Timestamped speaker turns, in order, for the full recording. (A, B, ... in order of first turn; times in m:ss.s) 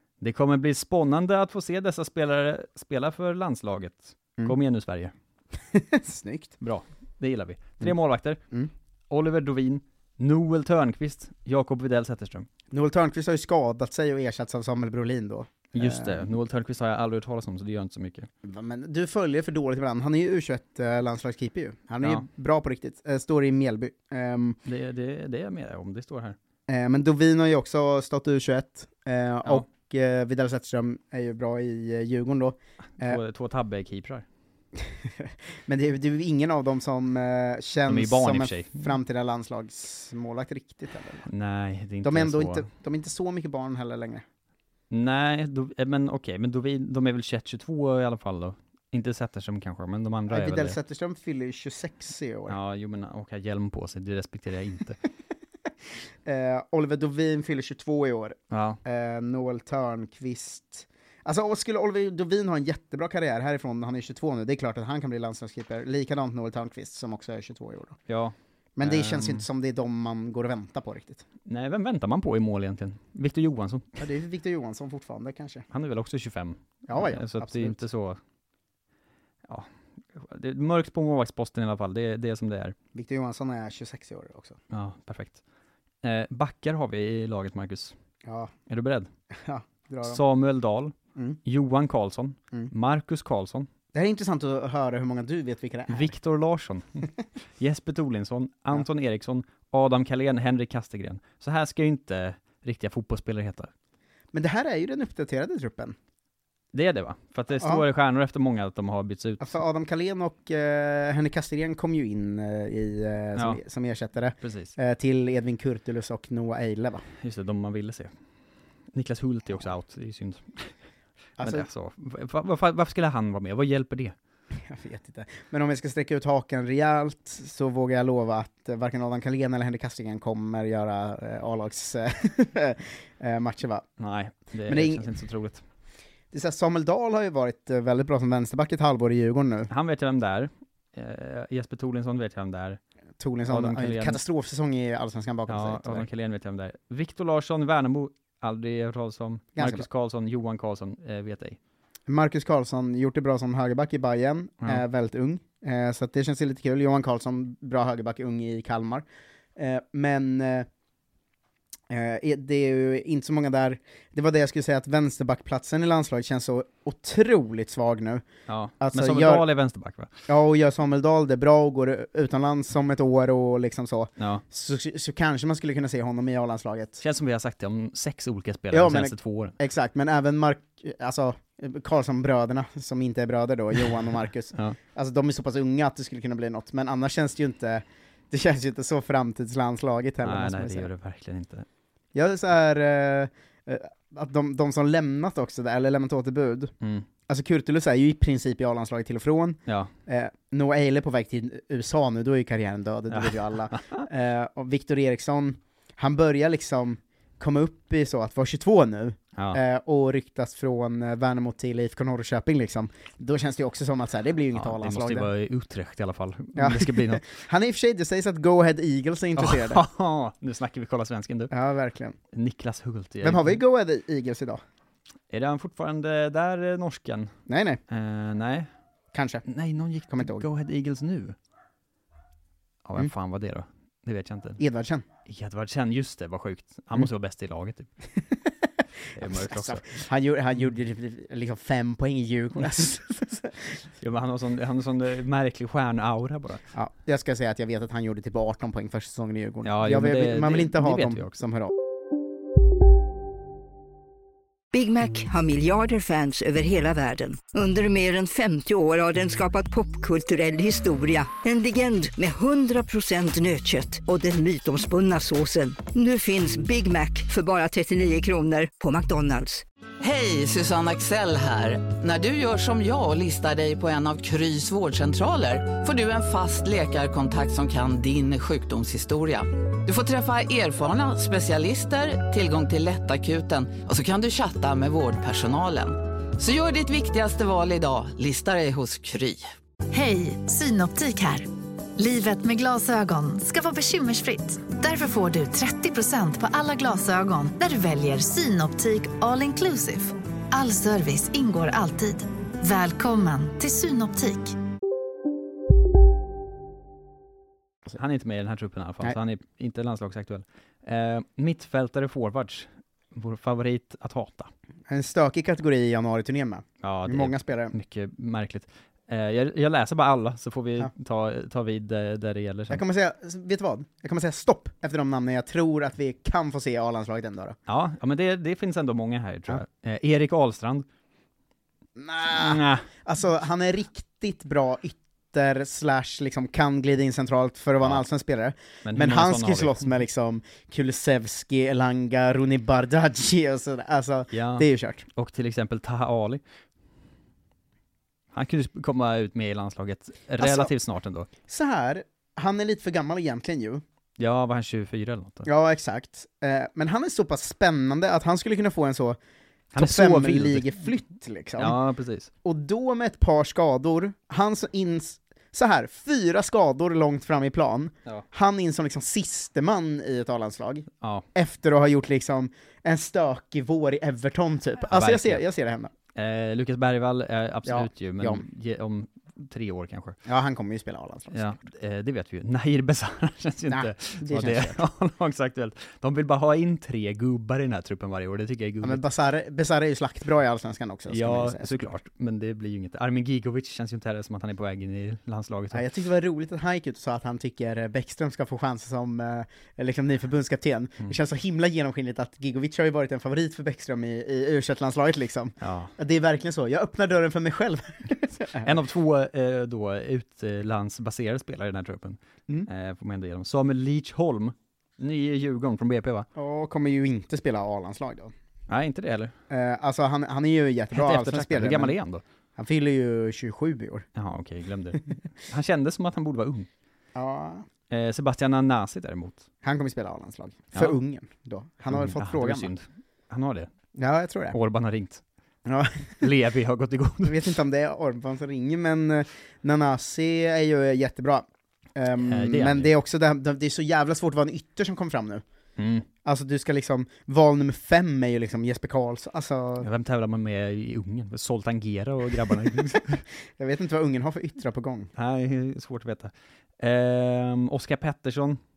0:00.2-0:05.1 A
0:05.7-0:06.6 B
0:06.6-0:08.4 A
0:09.1-0:12.5 A
0:12.7-0:16.3 B
0:15.7-0:18.3 A
0:18.4-0:24.6 B
0:24.6-0:26.4 A
0:26.7-0:33.2 B
0:33.0-0:34.2 A
0:34.8-0:41.2 B
0:37.9-0:39.0 A
0:41.2-0:42.7 A
0:42.0-0:44.2 B
0:44.9-0:50.8 A
0:50.3-0:52.6 B
0:52.5-0:55.0 A
0:56.2-1:08.0 B
0:58.5-0:58.8 A
1:08.1-1:09.4 A
1:08.8-1:11.2 B
1:11.4-1:14.0 A
1:14.0-1:15.6 B
1:15.7-1:18.2 A
1:16.9-1:17.8 B
1:19.5-1:22.7 A
1:22.9-1:24.6 B
1:24.7-1:25.4 A
1:26.0-1:27.9 A
1:28.2-1:28.5 B
1:28.7-1:29.1 A
1:29.4-1:30.2 B
1:30.0-1:33.7 A
1:33.9-1:36.1 B
1:35.9-1:37.1 A
1:37.6-1:43.7 A
1:44.3-1:46.0 B
1:46.7-1:49.6 A
1:47.6-1:47.8 B
1:49.4-1:57.0 B
1:54.4-1:54.8 A
1:57.2-1:58.1 A
1:58.9-2:00.7 A
2:01.4-2:01.7 B
2:01.4-2:04.1 A
2:04.6-2:13.9 B
2:14.0-2:15.6 A
2:14.7-2:15.1 B
2:16.3-2:19.7 B
2:19.7-2:22.8 A
2:23.2-2:26.1 B
2:23.5-2:24.2 A
2:25.5-2:31.6 A
2:29.6-2:29.8 B
2:32.1-2:39.0 B
2:39.6-2:40.7 B
2:41.9-2:48.2 B
2:48.5-2:50.1 A
2:48.8-2:49.4 B
2:50.3-2:57.0 B
2:54.2-2:54.4 A
2:57.0-2:59.6 A
2:58.7-3:10.9 B
3:10.2-3:11.6 A
3:12.1-3:16.7 B
3:16.8-3:17.1 A
3:17.3-3:35.3 B
3:19.7-3:19.9 A
3:23.1-3:24.0 A
3:34.5-3:37.2 A
3:36.6-3:39.8 B
3:39.4-3:41.5 A
3:41.5-3:42.2 B
3:42.3-3:43.6 A
3:43.2-3:44.6 B
3:45.3-3:47.4 A
3:47.5-3:47.8 B
3:47.9-3:48.7 A
3:49.1-3:49.4 B
3:49.4-3:51.4 A
3:50.1-3:50.4 B
3:52.8-3:54.6 A
3:54.6-3:55.0 B
3:55.2-3:57.9 A
3:59.1-3:59.9 A
3:59.2-4:03.8 B
4:04.0-4:06.6 A
4:06.7-4:11.7 B
4:09.6-4:11.3 A
4:14.7-4:29.6 C
4:30.0-4:49.5 D
4:49.9-5:04.6 E
5:07.9-5:14.5 A
5:14.9-5:17.7 B
5:16.8-5:22.8 A
5:22.7-5:27.6 B
5:27.7-5:30.8 A
5:32.0-5:45.0 B
5:32.3-5:32.9 A
5:38.8-5:39.8 A
5:44.3-5:46.4 A
5:48.3-5:51.3 A
5:50.4-5:50.7 B
5:51.5-5:53.8 B
5:54.2-5:55.5 A
5:55.4-5:59.2 B
5:59.7-6:01.8 B
5:59.7-6:00.7 A
6:01.6-6:02.3 A
6:02.4-6:15.9 B
6:14.9-6:15.4 A
6:16.1-6:20.2 A
6:17.6-6:18.4 B
6:20.2-6:21.6 B
6:21.3-6:29.0 A
6:23.7-6:24.8 B
6:28.8-6:31.9 B
6:31.1-6:35.8 A
6:35.7-6:48.7 B
6:45.6-6:45.9 A
6:48.6-6:56.3 A
6:56.4-6:58.3 B
6:58.7-6:59.3 A
6:59.5-7:01.9 B
7:00.9-7:02.2 A
7:02.6-7:04.0 B
7:04.2-7:06.7 A
7:07.1-7:07.7 B
7:07.9-7:09.4 A
7:09.6-7:12.7 B
7:11.9-7:13.7 A
7:13.9-7:14.6 B
7:14.5-7:15.2 A
7:15.6-7:16.2 B
7:16.2-7:17.4 A
7:17.2-7:25.4 B
7:22.2-7:22.9 A
7:25.8-7:26.1 A
7:26.2-7:29.9 B
7:29.8-7:33.2 A
7:33.6-7:35.1 B
7:35.2-7:38.6 A